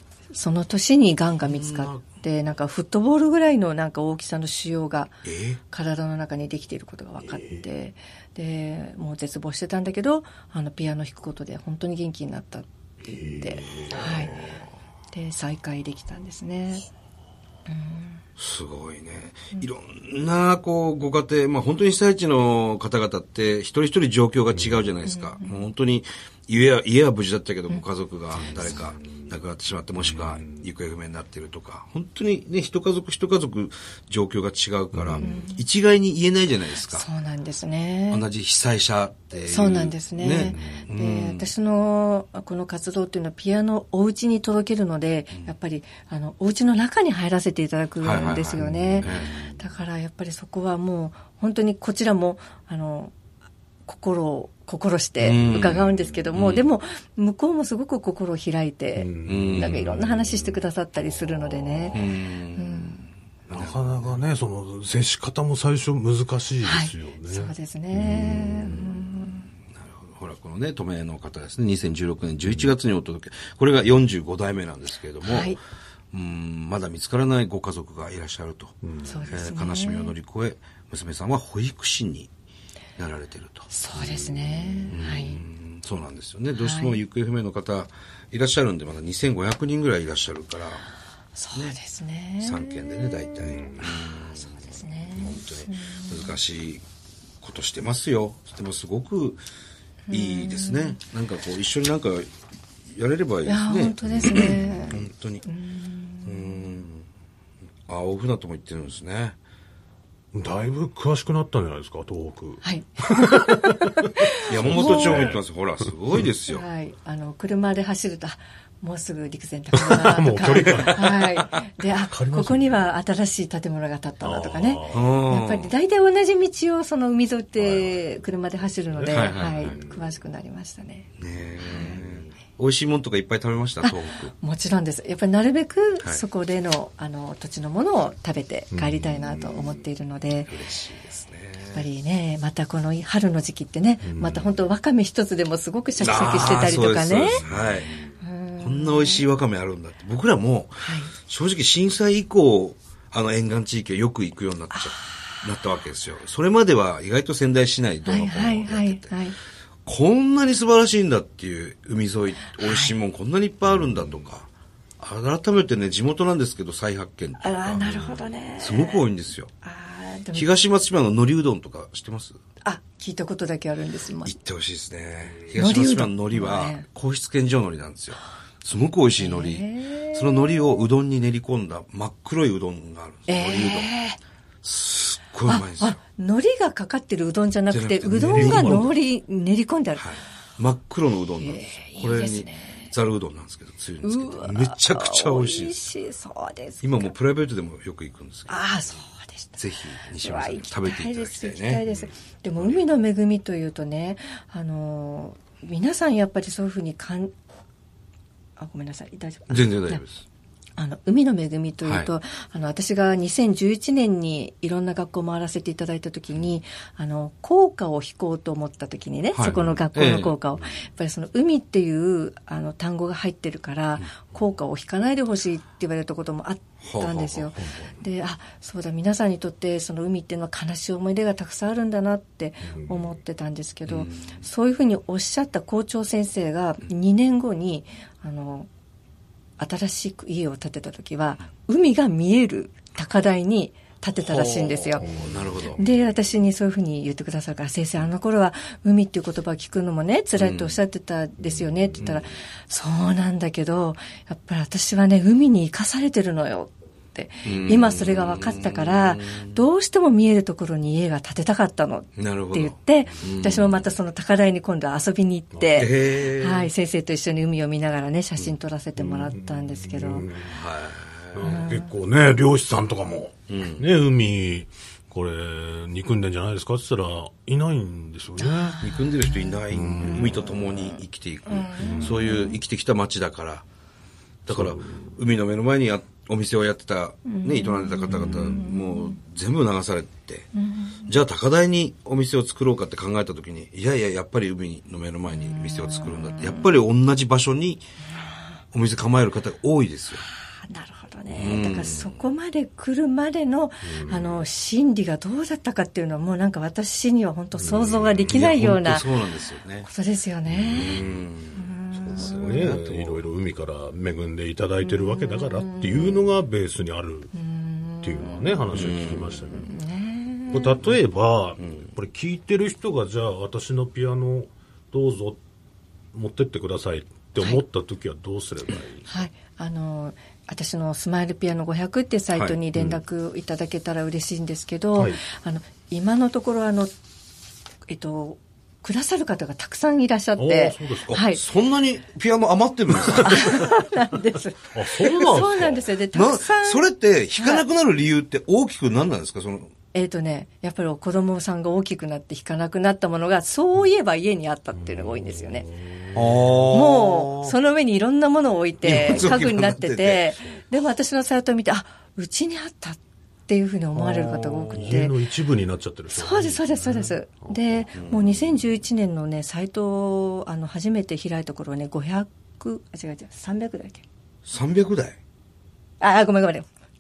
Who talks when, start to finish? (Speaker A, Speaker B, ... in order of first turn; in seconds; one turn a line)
Speaker A: 0.3-5.2
Speaker B: 1.5-2.1
Speaker B: 5.2-5.6
Speaker A: 5.7-14.5
Speaker C: 7.2-7.6
Speaker C: 13.0-14.6
Speaker A: 15.1-16.9
Speaker A: 17.7-18.2
Speaker B: 18.4-37.1
Speaker C: 24.5-24.9
Speaker A: 25.1-25.6
Speaker C: 28.4-29.4
Speaker C: 30.0-30.7
Speaker C: 34.9-35.4
Speaker A: 35.2-35.6
Speaker A: 36.9-38.3
Speaker B: 38.1-41.5
Speaker A: 39.5-53.1
Speaker C: 40.4-40.9
Speaker B: 48.0-49.5
Speaker C: 48.3-49.4
Speaker A: 53.9-63.0
Speaker B: 55.2-56.7
Speaker C: 59.0-60.6
Speaker B: 59.3-59.8
Speaker B: 61.9-64.2
Speaker C: 63.5-68.9
Speaker A: 66.6-69.5
Speaker B: 69.8-75.6
Speaker A: 75.2-75.6
Speaker B: 76.1-78.8
Speaker C: 78.8-79.3
Speaker A: 79.0-80.1
Speaker B: 79.3-82.3
Speaker B: 83.0-83.7
Speaker A: 83.7-85.4
Speaker C: 84.0-85.1
Speaker B: 84.9-90.9
Speaker A: 86.6-87.0
Speaker A: 91.4-93.5
Speaker B: 92.4-96.8
Speaker C: 93.5-93.9
Speaker A: 94.2-96.4
Speaker B: 97.4-99.4
Speaker A: 100.1-101.0
Speaker B: 100.1-102.3
Speaker B: 102.9-105.5
Speaker A: 103.5-106.8
Speaker C: 104.3-104.7
Speaker B: 106.2-107.0
Speaker B: 107.9-109.4
Speaker C: 110.3-114.0
Speaker A: 112.6-115.3
Speaker B: 114.5-116.6
Speaker C: 114.5-115.4
Speaker A: 116.5-131.1
Speaker C: 119.9-122.9
Speaker C: 124.2-125.1
Speaker B: 124.9-125.7
Speaker C: 128.9-130.1
Speaker B: 129.1-129.8
Speaker B: 131.2-134.3
Speaker A: 131.6-132.0
Speaker A: 133.8-140.5
Speaker C: 138.7-139.8
Speaker B: 140.5-141.9
Speaker A: 141.7-147.4
Speaker C: 144.0-144.6
Speaker B: 146.0-147.9
Speaker C: 146.0-148.2
Speaker A: 148.2-149.3
Speaker B: 148.6-159.1
Speaker A: 150.8-151.2
Speaker A: 154.7-155.2
Speaker A: 158.1-159.3
Speaker B: 159.9-164.5
Speaker A: 162.5-162.9
Speaker B: 165.0-169.5
Speaker A: 167.4-169.0
Speaker A: 169.6-170.5
Speaker B: 170.3-172.4
Speaker A: 172.6-174.3
Speaker B: 174.2-183.9
Speaker A: 175.5-176.8
Speaker A: 179.2-180.8
Speaker A: 183.3-184.2
Speaker B: 184.6-186.0
Speaker A: 185.5-190.1
Speaker B: 187.7-188.9
Speaker C: 188.1-188.9
Speaker B: 190.0-195.8
Speaker A: 191.4-192.9
Speaker A: 194.0-197.1
Speaker B: 196.8-198.6
Speaker A: 198.5-207.3
Speaker B: 199.6-201.9
Speaker A: 208.6-210.0
Speaker B: 209.5-210.2
Speaker A: 210.8-238.7
Speaker B: 211.8-212.1
Speaker B: 219.3-220.3
Speaker B: 226.8-227.7
Speaker C: 227.6-227.9
Speaker C: 232.7-233.1
Speaker B: 233.9-234.4
Speaker A: 239.6-245.1
Speaker B: 244.2-245.8
Speaker C: 245.0-245.6
Speaker A: 245.7-270.3
Speaker B: 250.4-250.8
Speaker C: 251.4-252.2
Speaker B: 257.4-259.6
Speaker B: 262.2-263.8
Speaker C: 265.5-265.9
Speaker B: 265.8-266.7
Speaker C: 269.0-270.6
Speaker B: 270.4-271.6
Speaker C: 271.3-278.9
Speaker A: 271.4-271.9
Speaker B: 273.5-273.9
Speaker A: 278.4-280.5
Speaker B: 278.8-283.6
Speaker C: 279.7-280.5
Speaker A: 281.5-282.6
Speaker C: 281.8-282.5
Speaker B: 284.5-290.5
Speaker C: 284.5-285.1
Speaker A: 287.2-289.2
Speaker C: 288.1-288.4
Speaker A: 290.5-291.2
Speaker B: 291.1-297.8
Speaker A: 295.3-296.7
Speaker A: 298.1-298.6
Speaker B: 298.7-300.3
Speaker A: 300.5-309.2
Speaker C: 301.3-301.6
Speaker B: 301.4-302.2
Speaker C: 303.8-304.5
Speaker C: 307.6-308.4
Speaker B: 308.3-309.9
Speaker A: 309.8-312.8
Speaker C: 310.5-311.2
Speaker B: 310.7-313.2
Speaker C: 311.9-317.3
Speaker A: 314.8-316.3
Speaker A: 317.3-318.8
Speaker C: 318.0-319.7
Speaker B: 318.7-319.4
Speaker A: 319.4-320.8
Speaker C: 320.5-325.4
Speaker B: 321.6-321.9
Speaker C: 326.1-329.2
Speaker A: 329.1-336.9
Speaker C: 335.0-335.2
Speaker A: 337.9-341.4
Speaker C: 340.4-341.2
Speaker B: 341.1-343.6
Speaker A: 343.2-347.6
Speaker C: 344.7-345.9
Speaker B: 346.1-349.7
Speaker A: 349.9-355.7
Speaker C: 354.7-356.8
Speaker B: 356.1-357.6
Speaker A: 356.7-365.2
Speaker B: 358.8-360.6
Speaker C: 363.9-367.9
Speaker B: 364.4-364.8
Speaker A: 366.1-374.0
Speaker B: 367.9-368.2
Speaker B: 374.5-375.2
Speaker A: 376.0-376.7